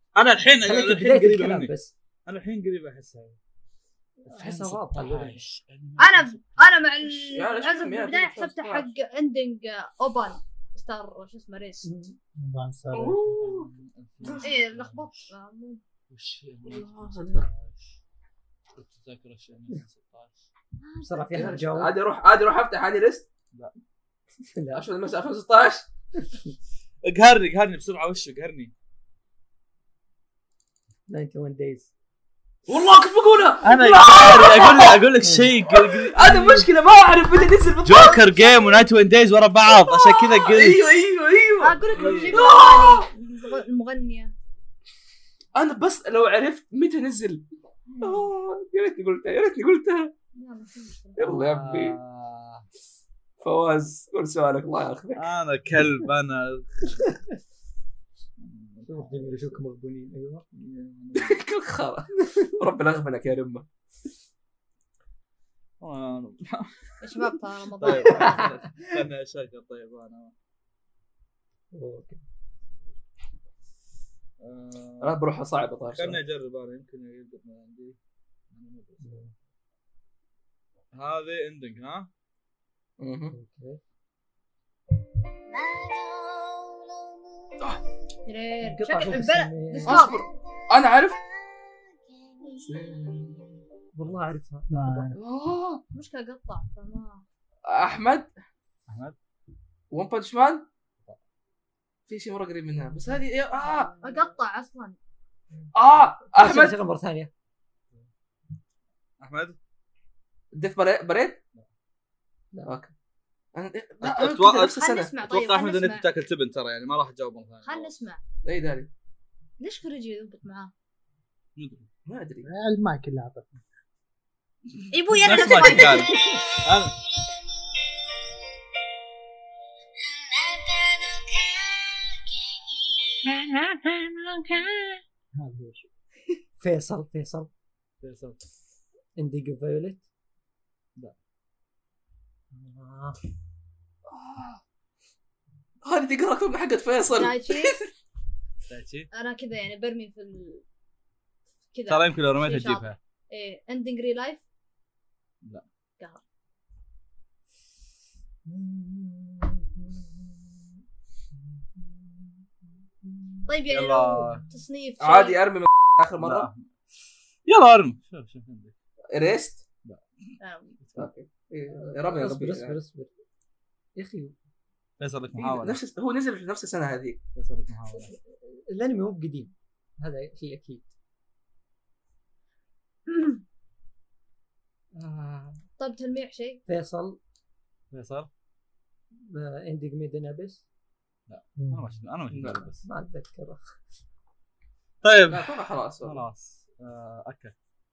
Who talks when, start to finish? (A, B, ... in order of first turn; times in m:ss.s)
0:00.1-0:01.7 A
0:00.6-0:01.9 B
0:02.2-0:03.4 A
0:04.2-0:05.4 B
0:04.3-0:06.7 A
0:06.0-0:11.9 C
0:07.3-0:08.9 D
0:11.8-0:12.2 B
0:12.4-0:13.2 E
0:12.9-0:13.7 D
0:13.2-0:15.3 A
0:14.4-0:15.8 C
0:16.1-0:17.9 A
0:16.6-0:17.4 D
0:18.8-0:20.3 A
0:20.8-0:21.5 C
0:21.0-0:21.9 B
0:21.3-0:23.2 D
0:24.5-0:24.9 B
0:24.7-0:25.8 D
0:27.0-0:28.7 A
0:31.1-0:31.9 B
0:32.7-0:35.0 D
0:33.6-0:36.7 A
0:35.2-0:35.5 B
0:35.7-0:38.2 D
0:37.8-0:40.8 A
0:38.1-0:38.8 C
0:40.4-0:43.1 D
0:41.6-0:44.3 C
0:41.9-0:42.4 A
0:45.5-0:47.4 D
0:47.9-0:48.3 C
0:48.0-0:50.1 D
0:50.3-0:51.3 C
0:51.2-0:52.0 D
0:51.3-0:52.6 A
0:53.4-0:55.2 D
0:55.1-0:57.2 A
0:58.4-0:59.6 A
0:58.8-1:00.4 B
1:00.5-1:01.4 A
1:01.2-1:03.6 D
1:05.8-1:10.3 A
1:07.0-1:08.5 C
1:08.2-1:08.5 B
1:11.7-1:12.2 B
1:14.4-1:15.2 A
1:15.0-1:16.2 D
1:15.9-1:18.0 A
1:18.5-1:19.2 A
1:19.0-1:19.3 B
1:20.9-1:22.1 A
1:23.0-1:23.3 D
1:23.3-1:23.8 B
1:28.2-1:30.2 C
1:28.6-1:30.1 B
1:29.8-1:31.2 D
1:32.5-1:33.6 D
1:33.9-1:35.2 B
1:34.7-1:35.1 E
1:35.1-1:35.8 D
1:35.9-1:37.2 C
1:37.7-1:38.3 D
1:38.9-1:39.1 A
1:39.9-1:40.6 D
1:42.1-1:43.9 D
1:44.0-1:45.0 C
1:45.7-1:46.7 D
1:46.3-1:47.3 B
1:49.2-1:49.6 A
1:50.5-1:51.4 D
1:52.5-1:52.8 B
1:52.6-1:52.9 D
1:53.5-1:55.1 D
1:54.0-1:57.9 A
1:54.8-1:56.0 C
1:57.6-1:58.2 C
1:58.4-1:58.9 D
1:59.6-2:00.7 C
2:01.6-2:01.8 A
2:02.1-2:02.5 D
2:02.4-2:03.6 E
2:04.8-2:07.0 A
2:04.9-2:06.2 C
2:06.1-2:06.5 B
2:13.2-2:15.0 B
2:15.3-2:15.8 E
2:16.6-2:17.5 B
2:18.0-2:18.4 A
2:19.2-2:20.0 B
2:22.5-2:23.2 B
2:25.8-2:27.8 D
2:27.1-2:27.8 C
2:28.7-2:29.1 A
2:29.1-2:30.6 C
2:31.7-2:34.4 C
2:31.9-2:33.0 A
2:38.4-2:40.6 B
2:41.7-2:42.3 B
2:43.0-2:43.5 B
2:43.5-2:45.4 C
2:43.6-2:44.4 A
2:45.0-2:46.5 D
2:46.2-2:46.6 A
2:47.4-2:48.7 A
2:49.1-2:49.6 D
2:49.8-2:51.1 A
2:50.4-2:50.8 C
2:51.0-2:52.8 D
2:51.7-2:53.1 B
2:54.0-2:54.3 B
2:55.0-2:55.8 A
2:55.4-2:57.2 D
2:57.4-2:58.1 A
2:58.4-3:00.9 B
3:03.1-3:03.4 C
3:04.9-3:05.6 B
3:05.8-3:06.6 C
3:06.7-3:07.2 B
3:07.9-3:08.3 A
3:09.3-3:10.6 B
3:11.3-3:12.8 A
3:11.6-3:11.8 E
3:12.3-3:13.6 B
3:15.0-3:15.5 A
3:15.3-3:16.2 D
3:16.0-3:17.5 A